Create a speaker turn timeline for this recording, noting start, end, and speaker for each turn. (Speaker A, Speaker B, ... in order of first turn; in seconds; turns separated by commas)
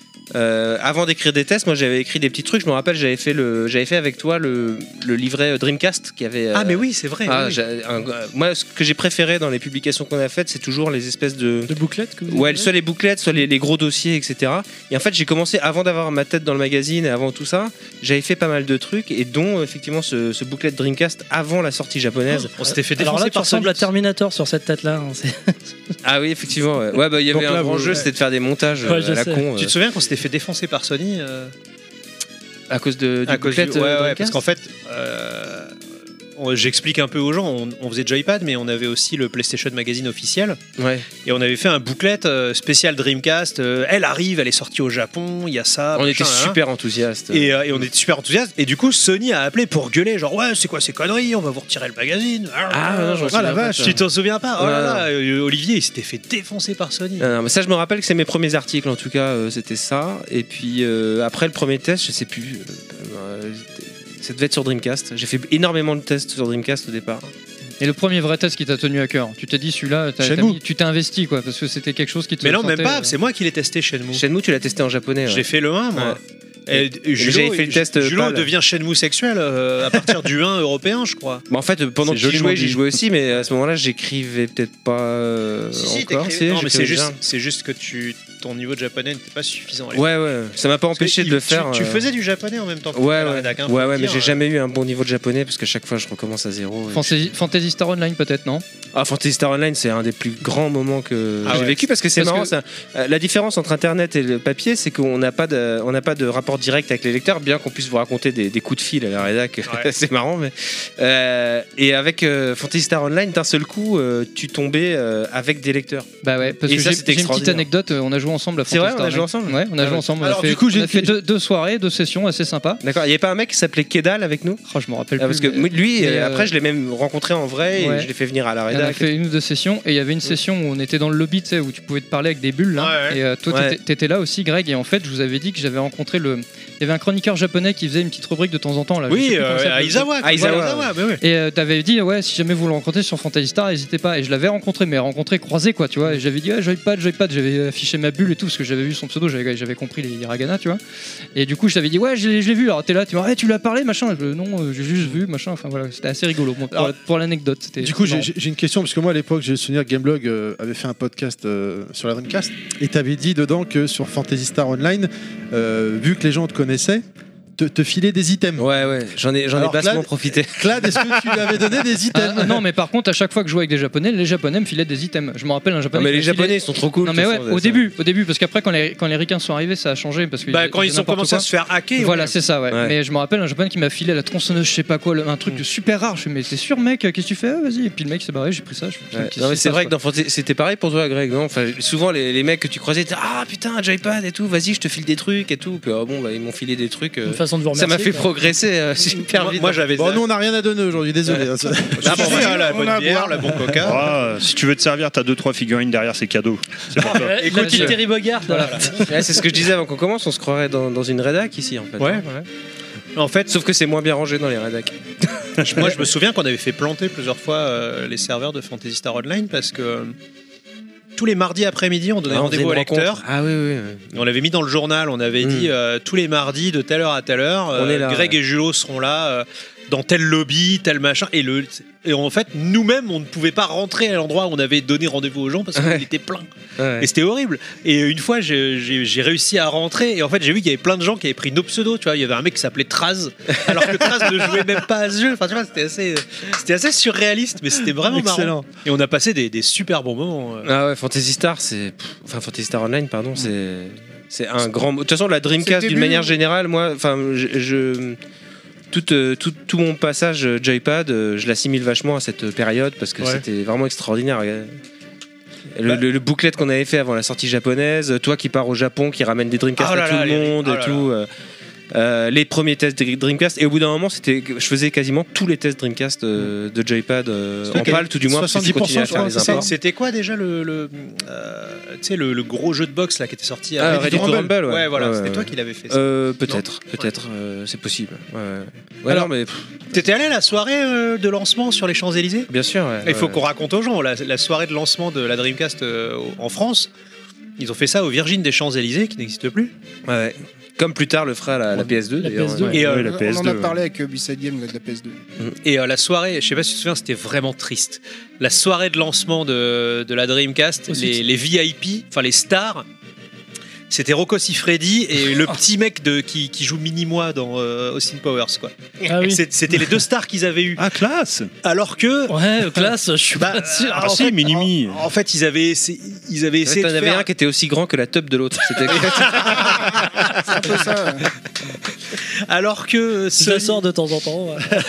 Speaker A: 0.3-11.7, Speaker B: 6.5-7.6, Speaker C: 11.7-12.7, Speaker A: 12.3-22.5, Speaker B: 22.5-23.9, Speaker C: 22.6-25.6, Speaker A: 26.0-29.7, Speaker D: 27.4-28.0, Speaker B: 27.7-28.1, Speaker C: 28.8-29.5, Speaker B: 29.6-31.5, Speaker A: 32.7-34.4, Speaker B: 33.3-35.7, Speaker B: 36.4-40.6, Speaker A: 40.8-41.1, Speaker B: 41.2-46.6, Speaker A: 46.0-47.9, Speaker B: 47.3-57.3, Speaker A: 52.7-54.0, Speaker D: 53.3-54.0, Speaker A: 54.6-55.1, Speaker A: 57.2-67.3, Speaker E: 67.8-73.1, Speaker D: 70.2-70.6, Speaker B: 72.4-74.2, Speaker A: 74.1-78.5, Speaker B: 75.3-81.4, Speaker A: 81.5-87.2, Speaker B: 85.7-90.1, Speaker A: 89.9-92.1, Speaker B: 91.0-94.4, Speaker A: 92.9-97.2, Speaker E: 96.9-98.7, Speaker A: 98.9-116.1, Speaker B: 101.4-101.9, Speaker E: 116.2-122.8, Speaker A: 116.6-117.7, Speaker A: 118.7-120.1, Speaker D: 120.2-121.2, Speaker A: 122.8-124.6, Speaker E: 124.7-126.5, Speaker A: 125.2-129.1, Speaker E: 127.8-128.1, Speaker E: 128.7-140.6, Speaker B: 132.8-133.2, Speaker A: 133.5-133.8, Speaker B: 139.1-141.2, Speaker A: 140.2-140.9, Speaker E: 141.2-150.8, Speaker E: 151.3-158.3, Speaker D: 157.8-167.0, Speaker D: 167.6-168.7, Speaker A: 168.6-171.5, Speaker D: 169.5-172.6, Speaker E: 172.1-181.5, Speaker A: 175.9-177.8, Speaker B: 180.5-182.3, Speaker E: 182.0-189.9, Speaker A: 182.7-182.9, Speaker A: 189.1-199.8, Speaker C: 197.3-198.3, Speaker B: 199.3-200.2, Speaker D: 199.9-202.4, Speaker B: 202.0-204.2, Speaker A: 202.0-202.6, Speaker F: 202.0-204.0, Speaker G: 203.8-207.4, Speaker C: 207.0-209.0, Speaker B: 207.2-209.4, Speaker E: 207.4-208.7, Speaker A: 209.1-212.5, Speaker B: 212.0-212.2, Speaker B: 213.2-213.5, Speaker A: 213.5-216.1, Speaker B: 215.6-220.2, Speaker B: 221.2-223.2, Speaker A: 222.3-224.2, Speaker B: 224.2-236.5, Speaker A: 225.4-225.7, Speaker A: 227.8-228.4, Speaker A: 235.8-236.0, Speaker A: 236.8-237.1, Speaker B: 237.0-250.7, Speaker A: 243.5-244.5, Speaker D: 248.1-248.7, Speaker A: 250.6-258.2, Speaker F: 255.6-256.4, Speaker A: 258.9-264.7, Speaker A: 265.7-271.3, Speaker B: 269.8-271.1, Speaker A: 271.9-279.7, Speaker B: 277.7-278.1, Speaker D: 277.7-279.7, Speaker B: 279.0-287.1, Speaker A: 283.8-290.0, Speaker D: 283.8-284.6, Speaker B: 289.9-292.5, Speaker A: 292.5-293.4, Speaker B: 293.0-296.9, Speaker B: 297.6-299.7, Speaker A: 300.1-302.8, Speaker C: 302.2-302.8, Speaker B: 302.7-303.1, Speaker G: 302.7-303.8, Speaker F: 302.8-305.2, Speaker B: 305.6-312.9, Speaker C: 310.9-311.2, Speaker B: 313.9-320.9, Speaker C: 319.1-319.4, Speaker G: 320.8-321.5, Speaker B: 321.6-322.8, Speaker C: 322.3-324.3, Speaker B: 323.4-327.3, Speaker G: 324.0-325.0, Speaker A: 326.6-330.1, Speaker B: 328.9-330.7, Speaker F: 330.4-331.3, Speaker B: 332.4-333.8, Speaker C: 333.4-334.8